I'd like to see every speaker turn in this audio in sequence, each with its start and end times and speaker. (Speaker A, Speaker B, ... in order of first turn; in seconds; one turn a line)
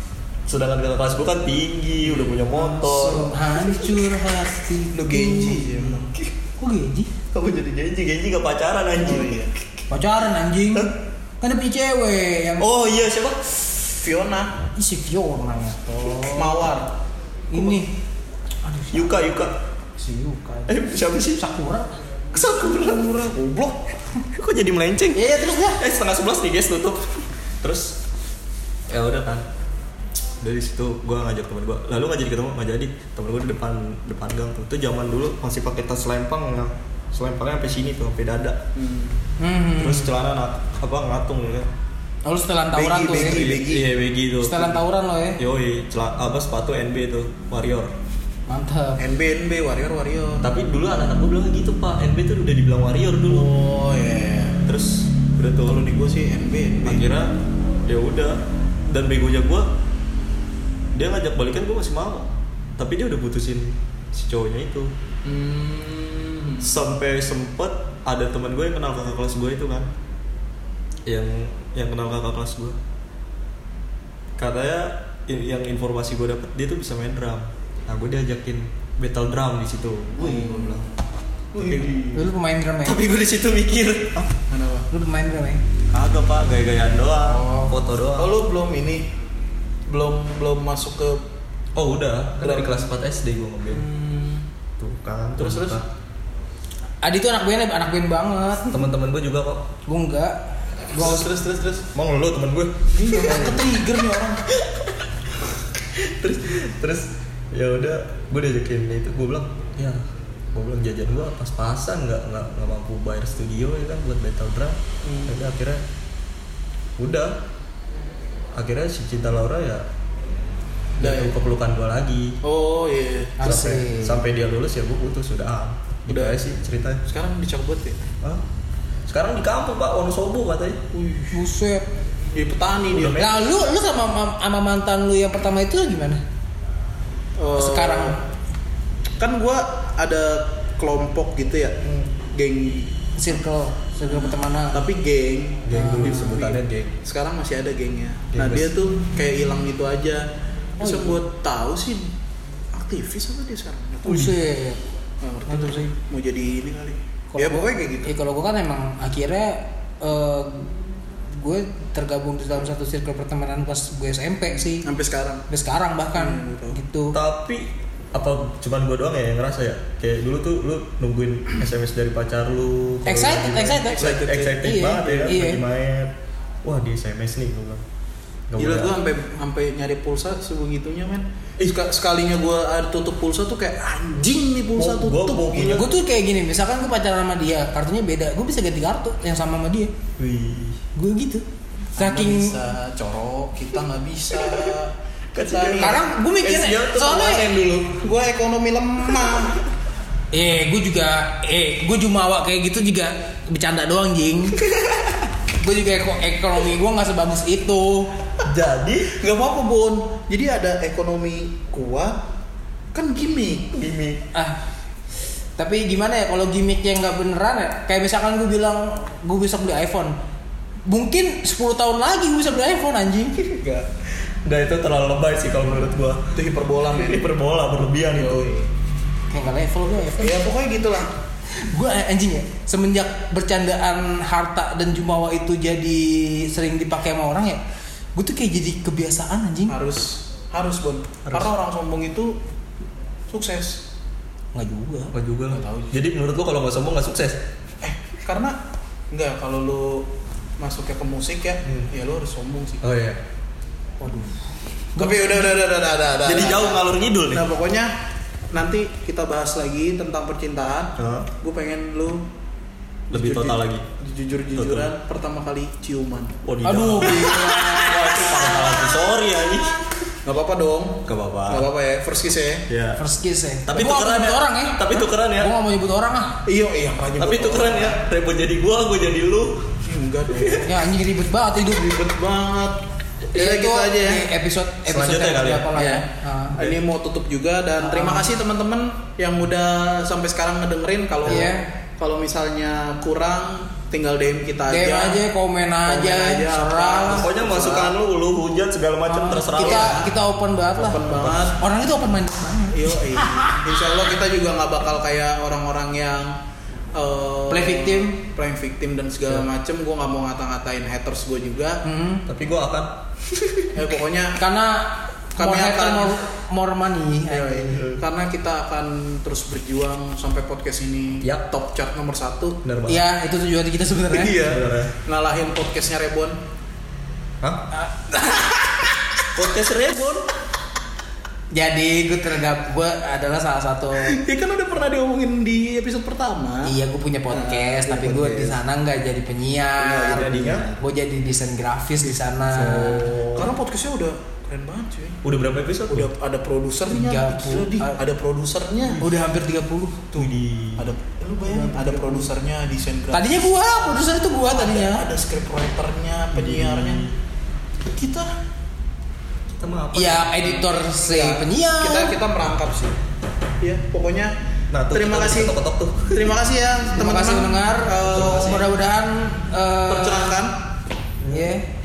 Speaker A: 0.5-4.0
Speaker B: 2.0-2.4
Speaker C: 2.5-6.0
Speaker B: 4.9-6.1
Speaker C: 6.6-7.1
Speaker A: 7.3-9.4
Speaker B: 9.0-9.5
Speaker C: 9.9-12.7
Speaker A: 12.6-13.4
Speaker B: 13.9-14.5
Speaker C: 14.7-16.7
Speaker B: 16.2-16.9
Speaker C: 17.5-17.9
Speaker C: 18.6-19.2
Speaker A: 18.9-19.5
Speaker C: 20.0-21.9
Speaker A: 20.7-21.4
Speaker A: 22.3-23.1
Speaker B: 22.3-23.8
Speaker A: 24.3-28.0
Speaker C: 25.1-25.8
Speaker A: 28.9-29.4
Speaker A: 30.4-38.6
Speaker B: 38.7-39.2
Speaker C: 39.4-40.1
Speaker A: 39.8-41.7
Speaker C: 42.2-43.4
Speaker B: 42.7-43.9
Speaker A: 43.2-44.8
Speaker C: 44.4-45.4
Speaker A: 45.4-47.9
Speaker C: 48.5-49.0
Speaker B: 49.0-50.5
Speaker A: 50.4-53.5
Speaker B: 53.3-54.6
Speaker A: 54.6-55.8
Speaker B: 55.6-57.0
Speaker A: 56.8-57.3
Speaker A: 57.9-59.7
Speaker A: 60.9-64.9
Speaker B: 65.2-66.7
Speaker A: 66.6-69.9
Speaker A: 71.0-72.8
Speaker A: 74.4-80.9
Speaker B: 80.2-80.8
Speaker B: 81.5-82.3
Speaker A: 81.6-81.9
Speaker C: 82.1-83.0
Speaker A: 82.8-84.3
Speaker B: 84.5-84.9
Speaker C: 84.9-85.6
Speaker A: 85.9-88.3
Speaker C: 87.3-87.7
Speaker B: 88.2-89.0
Speaker B: 89.9-91.2
Speaker A: 91.7-93.8
Speaker B: 92.4-92.9
Speaker B: 93.7-94.5
Speaker A: 94.8-95.8
Speaker B: 95.4-95.8
Speaker C: 97.0-98.8
Speaker A: 98.7-99.7
Speaker C: 99.8-100.4
Speaker B: 100.9-101.9
Speaker C: 100.9-101.2
Speaker A: 101.9-103.3
Speaker B: 102.9-104.5
Speaker C: 103.3-103.6
Speaker A: 104.5-105.1
Speaker A: 105.8-110.0
Speaker A: 110.5-115.8
Speaker B: 115.0-115.3
Speaker A: 117.0-117.4
Speaker A: 118.5-119.8
Speaker B: 121.0-121.3
Speaker A: 121.0-122.4
Speaker B: 122.4-123.5
Speaker C: 123.4-124.2
Speaker A: 123.4-127.0
Speaker B: 126.1-126.4
Speaker B: 127.1-128.0
Speaker A: 129.1-130.8
Speaker B: 130.9-131.4
Speaker C: 131.3-131.9
Speaker B: 132.3-133.2
Speaker A: 132.9-133.5
Speaker C: 133.2-136.2
Speaker B: 137.4-138.2
Speaker C: 137.6-138.2
Speaker B: 139.2-143.1
Speaker C: 143.2-144.8
Speaker B: 144.1-150.2
Speaker A: 145.6-146.9
Speaker C: 145.7-146.3
Speaker A: 148.3-148.7
Speaker B: 150.8-152.1
Speaker C: 150.8-151.2
Speaker B: 152.7-154.3
Speaker C: 154.0-154.8
Speaker A: 154.1-154.3
Speaker B: 155.2-158.1
Speaker C: 155.5-155.9
Speaker C: 157.3-160.7
Speaker C: 161.3-164.9
Speaker B: 164.8-165.4
Speaker C: 165.5-167.2
Speaker B: 166.1-166.8
Speaker A: 167.1-176.1
Speaker C: 173.1-175.6
Speaker B: 173.9-175.4
Speaker A: 176.6-177.8
Speaker A: 178.5-179.0
Speaker B: 178.6-185.9
Speaker A: 184.8-185.9
Speaker C: 185.7-189.9
Speaker A: 190.2-190.8
Speaker C: 190.9-191.4
Speaker C: 191.9-192.6
Speaker B: 191.9-196.1
Speaker A: 194.4-194.7
Speaker A: 195.3-197.6
Speaker C: 195.8-197.6
Speaker B: 197.2-199.6
Speaker C: 200.3-204.6
Speaker C: 205.6-208.1
Speaker A: 208.4-209.2
Speaker B: 209.1-212.2
Speaker B: 212.9-213.7
Speaker A: 213.7-214.2
Speaker C: 214.3-214.6
Speaker C: 215.6-220.2
Speaker C: 220.8-223.6
Speaker B: 223.5-223.9
Speaker A: 224.4-226.2
Speaker B: 226.3-227.3
Speaker A: 226.9-228.5
Speaker B: 228.1-228.7
Speaker C: 229.3-230.4
Speaker B: 230.1-231.1
Speaker C: 231.5-237.6
Speaker C: 238.1-239.8
Speaker B: 239.7-242.4
Speaker B: 243.3-243.8
Speaker C: 244.5-245.1
Speaker A: 245.1-247.4
Speaker B: 245.5-246.0
Speaker B: 247.8-248.6
Speaker B: 249.1-252.8
Speaker A: 252.8-253.2
Speaker C: 254.0-254.3
Speaker C: 254.9-255.6
Speaker B: 254.9-257.9
Speaker A: 256.2-257.5
Speaker B: 258.5-262.3
Speaker A: 261.0-261.3
Speaker B: 263.1-266.4
Speaker A: 263.1-263.8
Speaker A: 264.5-264.9
Speaker A: 266.4-270.1
Speaker C: 266.6-268.6
Speaker B: 270.2-272.7
Speaker A: 271.0-271.7
Speaker A: 272.7-273.0
Speaker C: 273.0-276.4
Speaker A: 273.6-275.5
Speaker B: 276.4-278.0
Speaker A: 277.2-279.8
Speaker B: 279.8-280.8
Speaker C: 280.5-281.9
Speaker B: 281.6-284.2
Speaker C: 283.3-286.6
Speaker A: 284.9-285.8
Speaker B: 285.8-295.2
Speaker C: 287.8-288.3
Speaker C: 291.2-291.6
Speaker C: 294.7-297.3
Speaker B: 295.9-297.9
Speaker A: 297.1-300.0
Speaker C: 299.1-303.7
Speaker B: 299.5-300.1
Speaker B: 300.7-301.6
Speaker A: 301.1-301.4
Speaker B: 302.7-306.4
Speaker B: 306.9-311.8
Speaker C: 307.5-308.2
Speaker C: 311.8-312.2
Speaker A: 312.3-313.8
Speaker B: 313.7-314.4
Speaker C: 314.4-317.9
Speaker B: 315.3-316.2
Speaker B: 317.3-322.6
Speaker A: 322.6-323.0
Speaker C: 322.9-324.4
Speaker B: 324.1-326.4
Speaker A: 324.4-324.9
Speaker A: 327.4-327.7
Speaker C: 327.7-328.7
Speaker A: 329.3-330.2
Speaker C: 331.5-334.2
Speaker B: 334.0-336.7
Speaker C: 336.6-343.2
Speaker B: 337.3-338.6
Speaker A: 339.8-340.7
Speaker A: 342.5-343.5
Speaker B: 343.3-345.2
Speaker A: 345.2-346.1
Speaker B: 345.9-349.0
Speaker C: 346.9-348.0
Speaker C: 349.0-350.1
Speaker B: 350.1-353.4
Speaker A: 350.1-350.9
Speaker C: 351.5-352.2
Speaker C: 353.1-355.0
Speaker B: 354.5-357.0
Speaker A: 356.3-357.2
Speaker B: 357.8-358.3
Speaker A: 359.5-360.6
Speaker C: 359.9-362.1
Speaker B: 360.8-362.9
Speaker B: 363.6-364.3
Speaker A: 364.7-366.4
Speaker B: 364.9-365.6
Speaker B: 366.1-368.7
Speaker C: 366.9-370.4
Speaker A: 368.1-368.6
Speaker B: 369.9-370.6
Speaker C: 371.2-371.6